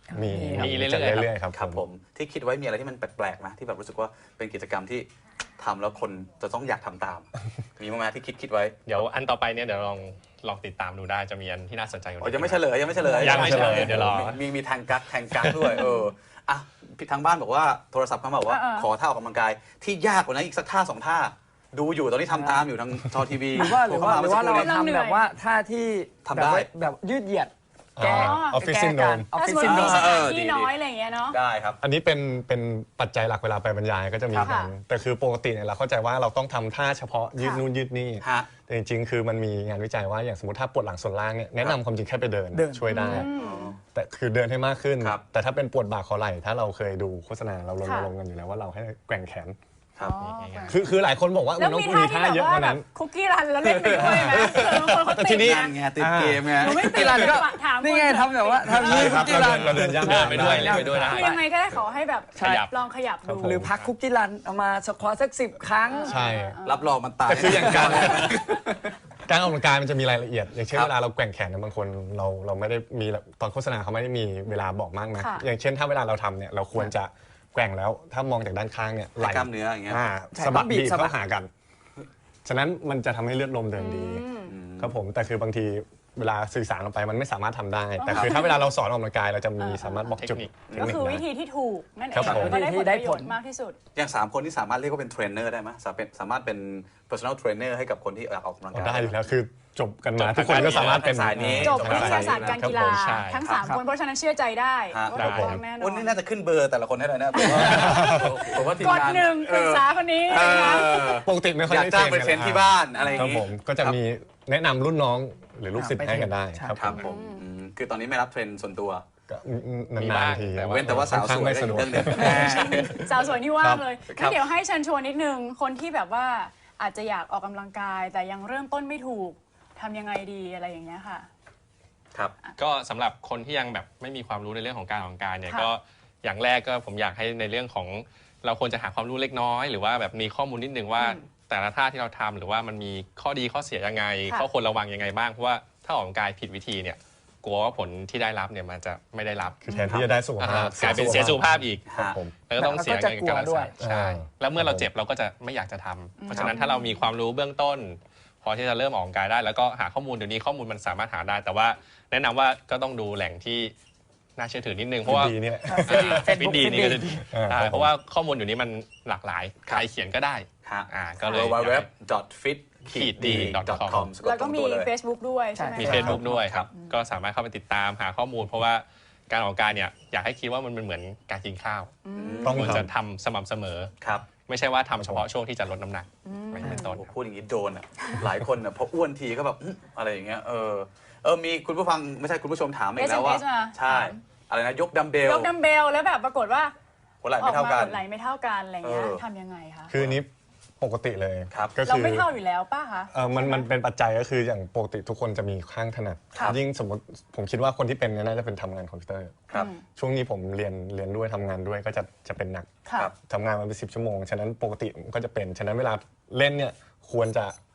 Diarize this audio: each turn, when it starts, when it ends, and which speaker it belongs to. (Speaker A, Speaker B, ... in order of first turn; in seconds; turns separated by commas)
Speaker A: 0.1-0.8, Speaker B: 0.1-1.8, Speaker C: 0.5-1.3, Speaker D: 1.5-8.9, Speaker C: 8.9-14.4, Speaker D: 12.2-24.7, Speaker B: 13.1-14.2, Speaker C: 15.3-15.9, Speaker E: 15.8-16.0, Speaker E: 18.5-18.9, Speaker A: 22.3-22.7, Speaker A: 23.5-30.1, Speaker E: 24.5-25.2, Speaker D: 26.3-26.7, Speaker B: 28.0-29.3, Speaker E: 28.0-28.6, Speaker E: 29.3-31.4, Speaker D: 29.6-30.7, Speaker D: 31.3-31.8, Speaker B: 31.8-43.3, Speaker E: 34.4-34.7, Speaker E: 37.4-37.6, Speaker D: 38.2-38.5, Speaker A: 42.5-43.2, Speaker E: 42.9-43.8, Speaker D: 43.1-43.8, Speaker B: 43.9-49.6, Speaker E: 47.8-48.1, Speaker E: 50.0-50.8, Speaker C: 50.1-50.8, Speaker B: 50.7-52.9, Speaker E: 51.6-55.8, Speaker D: 53.7-57.3, Speaker B: 53.9-56.6, Speaker E: 56.6-58.9, Speaker A: 56.6-61.4, Speaker D: 58.7-59.4, Speaker B: 58.7-61.1, Speaker C: 59.4-61.4, Speaker E: 61.1-63.7, Speaker A: 62.4-62.7, Speaker C: 62.4-62.7, Speaker B: 63.2-63.7, Speaker A: 63.4-66.2, Speaker E: 65.9-67.0, Speaker B: 66.1-66.6, Speaker D: 66.7-68.8, Speaker B: 67.3-68.6, Speaker A: 67.4-68.2, Speaker B: 69.3-81.5, Speaker E: 75.2-75.5, Speaker D: 79.2-80.0, Speaker A: 80.3-81.2, Speaker B: 82.5-91.2, Speaker E: 83.8-84.5, Speaker D: 84.5-84.9, Speaker E: 88.0-88.6, Speaker D: 88.1-88.4, Speaker E: 89.6-90.1, Speaker C: 90.1-90.5, Speaker D: 90.7-90.9, Speaker E: 90.7-93.8, Speaker B: 92.1-92.5, Speaker A: 92.2-93.4, Speaker D: 94.0-99.2, Speaker B: 98.7-103.1, Speaker C: 100.2-102.2, Speaker D: 100.3-102.8, Speaker E: 101.6-106.2, Speaker C: 102.8-103.5, Speaker D: 104.9-114.0, Speaker C: 105.2-105.5, Speaker B: 105.2-105.6, Speaker E: 107.3-111.2, Speaker B: 107.6-108.4, Speaker B: 111.2-117.0, Speaker A: 115.8-116.8, Speaker D: 116.8-119.0, Speaker E: 117.0-117.5, Speaker B: 119.3-123.0, Speaker C: 120.0-121.2, Speaker D: 120.7-123.2, Speaker E: 122.1-131.3, Speaker B: 123.6-123.8, Speaker D: 124.1-124.5, Speaker C: 132.6-151.9, Speaker E: 141.0-141.2, Speaker B: 149.7-152.3, Speaker E: 149.7-150.0, Speaker D: 150.9-151.2, Speaker D: 151.9-152.2, Speaker C: 152.5-163.7, Speaker A: 152.6-153.7, Speaker B: 153.8-154.9, Speaker E: 156.2-157.0, Speaker C: 164.4-171.9, Speaker B: 165.1-166.3, Speaker A: 165.7-167.3, Speaker B: 167.3-167.9, Speaker D: 170.7-174.9, Speaker E: 171.2-171.5, Speaker C: 172.9-174.1, Speaker B: 173.2-173.5, Speaker E: 174.2-176.9, Speaker A: 175.6-176.2, Speaker C: 175.8-183.9, Speaker B: 175.8-176.2, Speaker D: 176.2-176.7, Speaker E: 182.1-182.6, Speaker D: 182.2-182.9, Speaker B: 182.4-182.9, Speaker D: 184.0-184.3, Speaker C: 184.5-187.1, Speaker B: 184.9-185.3, Speaker E: 186.3-187.0, Speaker D: 186.8-195.5, Speaker E: 193.0-194.2, Speaker E: 195.2-196.7, Speaker D: 197.2-198.0, Speaker E: 197.4-199.9, Speaker D: 198.8-199.2, Speaker B: 199.9-202.3, Speaker D: 199.9-200.2, Speaker D: 201.5-201.8, Speaker E: 201.8-203.7, Speaker B: 203.1-217.6, Speaker E: 209.5-209.8, Speaker E: 212.8-213.1